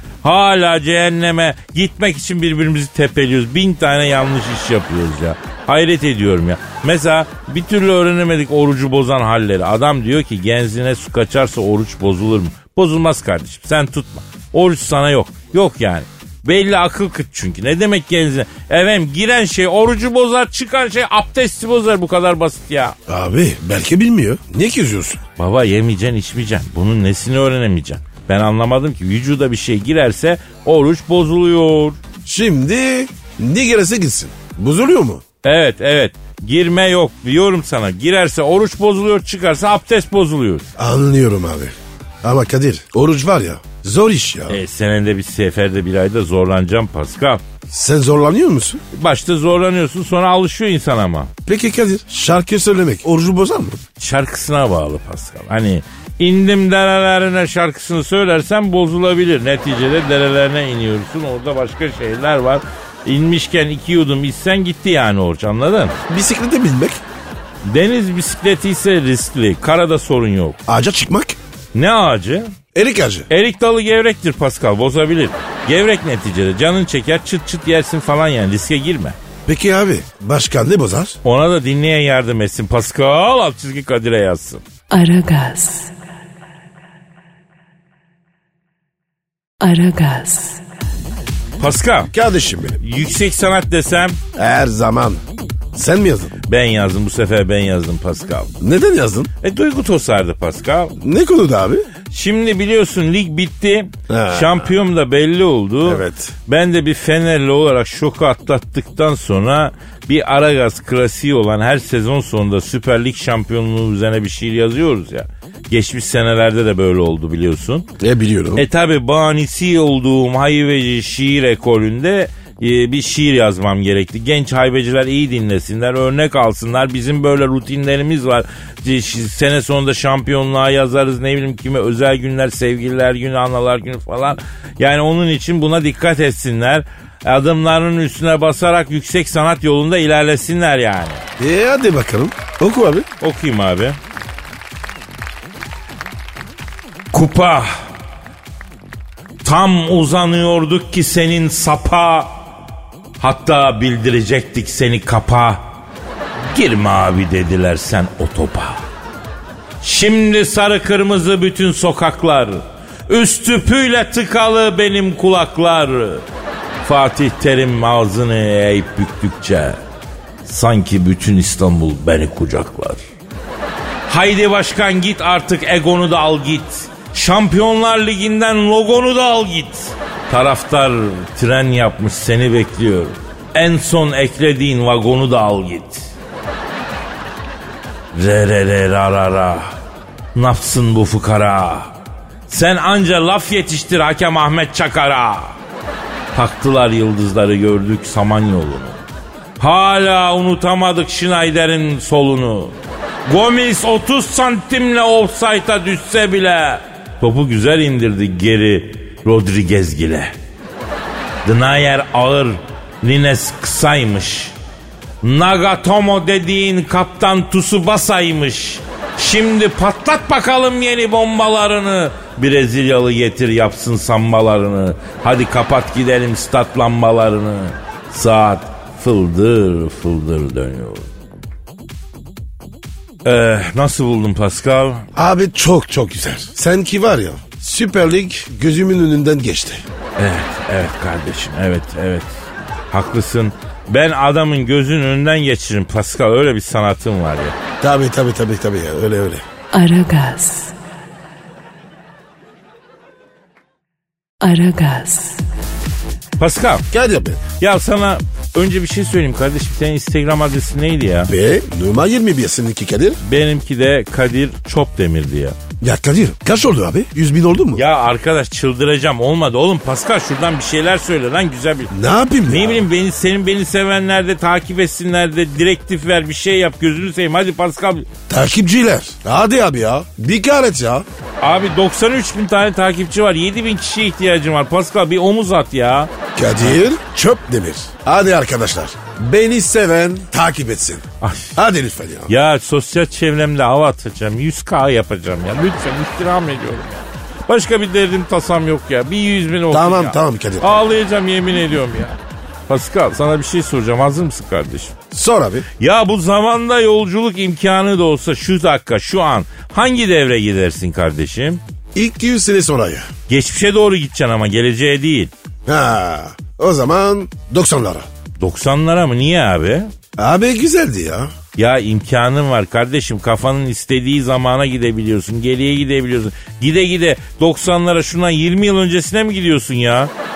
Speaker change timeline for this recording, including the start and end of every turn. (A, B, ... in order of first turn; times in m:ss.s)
0:00.2-0:23.0 A
0:23.1-0:25.2 B
0:25.4-0:32.0 A
0:32.2-0:35.2 B
0:35.4-0:40.7 A
0:40.8-0:44.6 B
0:44.5-0:47.4 A
0:47.7-0:48.8 B
0:48.9-0:51.3 A
0:51.5-0:53.8 B
0:54.0-1:06.0 A
1:06.1-1:07.0 B
1:07.6-1:10.6 A
1:10.7-1:11.4 B
1:11.7-1:12.6 A
1:12.8-1:13.3 B
1:13.3-1:19.2 A
1:19.5-1:21.2 B
1:21.2-1:24.6 A
1:24.9-1:25.9 C
1:29.6-1:30.6 C
1:31.6-1:32.1 A
1:32.1-1:32.8 B
1:32.8-1:34.2 A
1:34.4-1:35.2 B
1:35.7-1:36.3 B
1:36.5-1:38.5 A
1:38.6-1:39.3 B
1:39.4-1:40.9 A
1:41.0-1:41.9 B
1:42.1-1:57.9 A
1:44.1-1:44.8 B
1:45.8-1:46.4 B
1:58.0-1:58.7 B
1:58.6-2:21.2 A
2:21.4-2:23.1 B
2:23.2-2:24.0 A
2:27.1-2:27.8 A
2:29.4-2:32.4 A
2:33.2-2:35.7 A
2:36.5-2:38.8 A
2:39.8-2:46.2 A
2:46.8-2:49.8 A
2:50.4-2:53.0 A
2:54.1-3:06.1 A
3:08.1-3:09.7 A
3:10.4-3:11.9 A
3:12.5-3:15.6 A
3:16.3-3:19.0 A
3:19.6-3:22.8 A
3:23.3-3:30.3 A
3:31.4-3:34.6 A
3:35.2-3:51.1 A
3:53.2-3:55.1 A
3:55.2-3:59.9 B
4:00.2-4:02.3 A
4:02.9-4:07.6 A
4:07.8-4:09.4 B
4:09.7-4:10.7 C
4:14.4-4:15.4 C
4:16.4-4:16.9 A
4:16.9-4:17.4 B
4:17.6-4:21.3 A
4:21.3-4:23.2 B
4:23.2-4:25.6 A
4:25.8-4:27.8 B
4:27.8-4:31.9 A
4:31.9-4:32.9 B
4:32.5-4:38.1 A
4:38.3-4:41.1 B
4:41.4-4:46.8 A
4:46.4-4:52.3 B
4:51.2-4:51.6 A
4:52.3-5:02.2 A
4:59.7-5:00.8 B
5:02.7-5:04.9 A
5:05.1-5:05.6 B
5:05.8-5:11.6 A
5:12.0-5:13.1 B
5:13.3-5:15.3 A
5:15.7-5:18.1 B
5:18.4-5:19.9 A
5:20.2-5:21.3 B
5:21.6-5:30.1 A